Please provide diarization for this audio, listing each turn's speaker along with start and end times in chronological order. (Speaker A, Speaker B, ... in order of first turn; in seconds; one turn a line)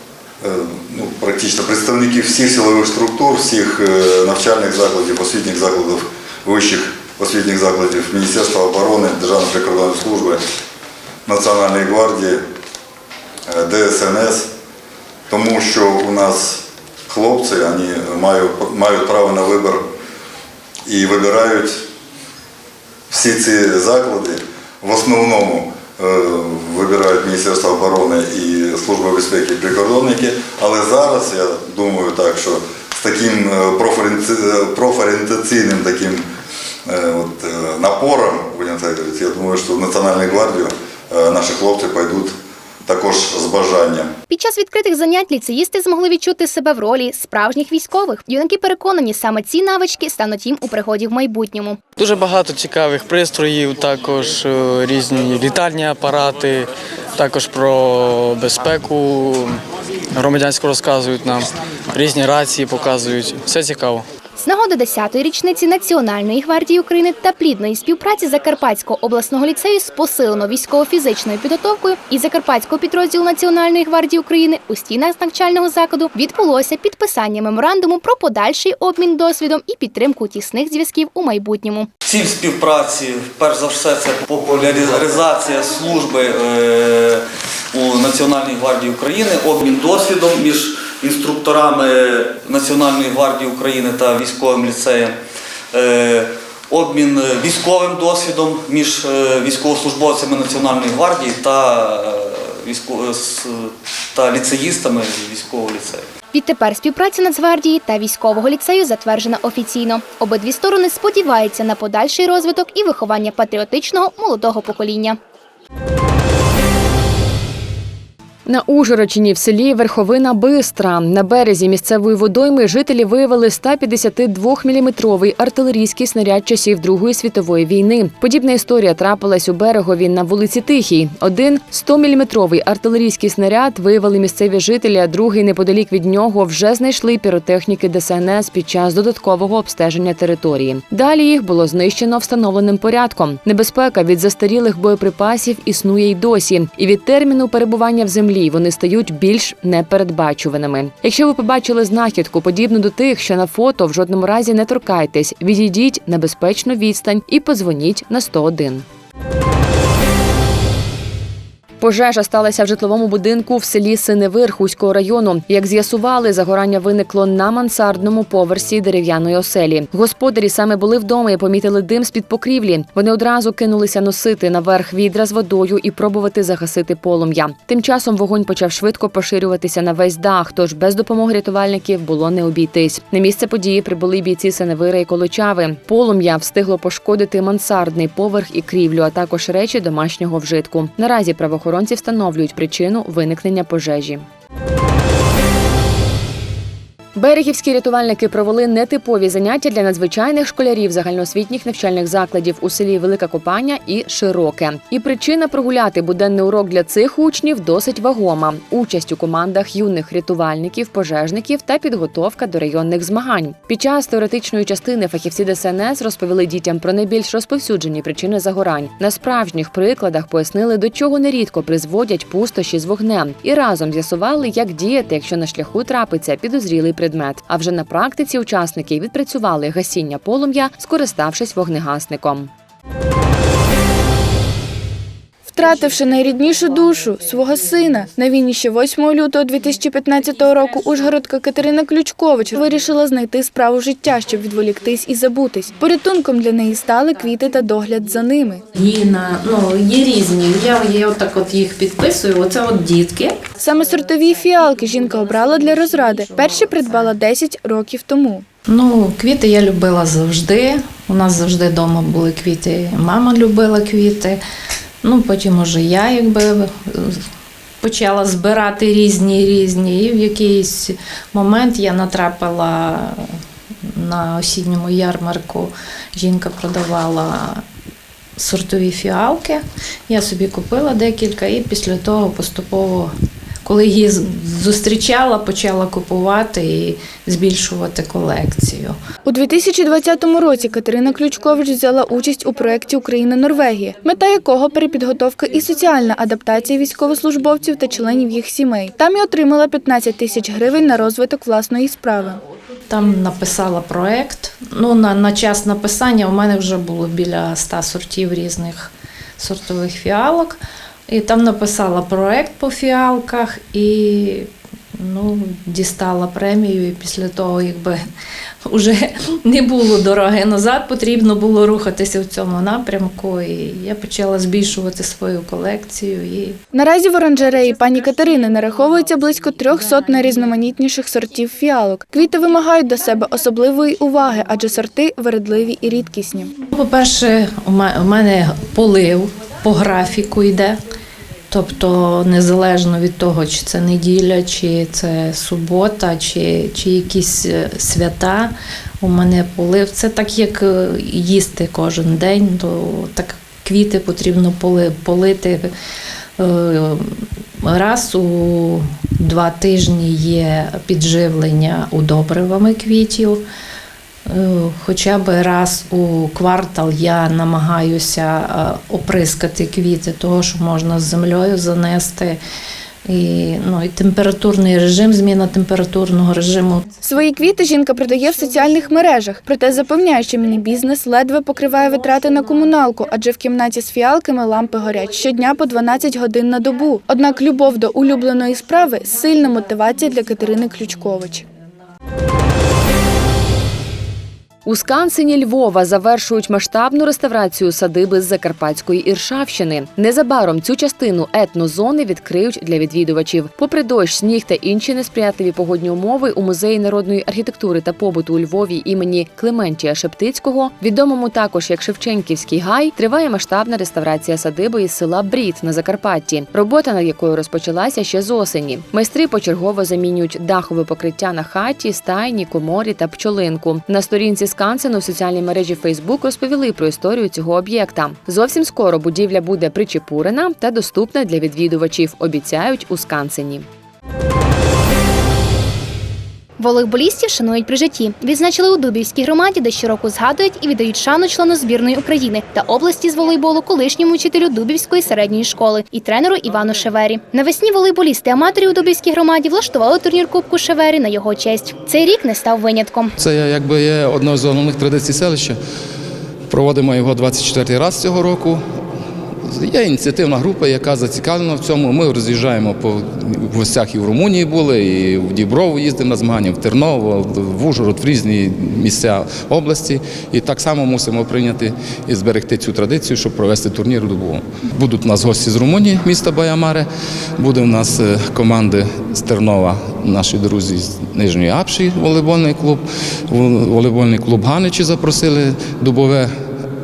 Speaker A: 0.4-10.4
Speaker A: 11.2-12.4
Speaker A: 13.5-14.5
Speaker A: 15.3-19.9
Speaker A: 20.9-21.8
Speaker A: 23.1-36.2
Speaker A: 36.9-44.1
Speaker B: 44.3-51.8
Speaker C: 52.0-59.6
Speaker C: 60.1-64.0
Speaker B: 64.4-81.9
Speaker D: 82.0-87.2
Speaker D: 87.7-95.1
Speaker D: 95.7-106.1
Speaker B: 106.3-115.2
Speaker E: 118.5-158.8
Speaker E: 161.8-194.2
Speaker E: 197.1-232.5
Speaker F: 235.5-248.6
Speaker G: 248.7-253.4
Speaker F: 253.6-258.4
Speaker G: 258.7-264.4
Speaker G: 265.0-267.2
Speaker G: 267.8-273.2
Speaker G: 274.0-277.6
Speaker G: 278.4-283.1
Speaker G: 283.6-289.0
Speaker F: 289.2-302.4
Speaker G: 302.9-314.5
Speaker G: 315.0-318.0
Speaker G: 318.7-326.6
Speaker F: 326.7-336.5
Speaker G: 336.7-340.8
Speaker G: 341.5-355.7
Speaker G: 356.4-363.4
Speaker G: 364.3-372.4
Speaker G: 373.1-376.8
Speaker F: 377.0-391.4
Speaker E: 394.6-433.7
Speaker B: 436.6-453.1
Speaker H: 453.2-455.6
Speaker H: 456.5-458.6
Speaker H: 459.4-486.3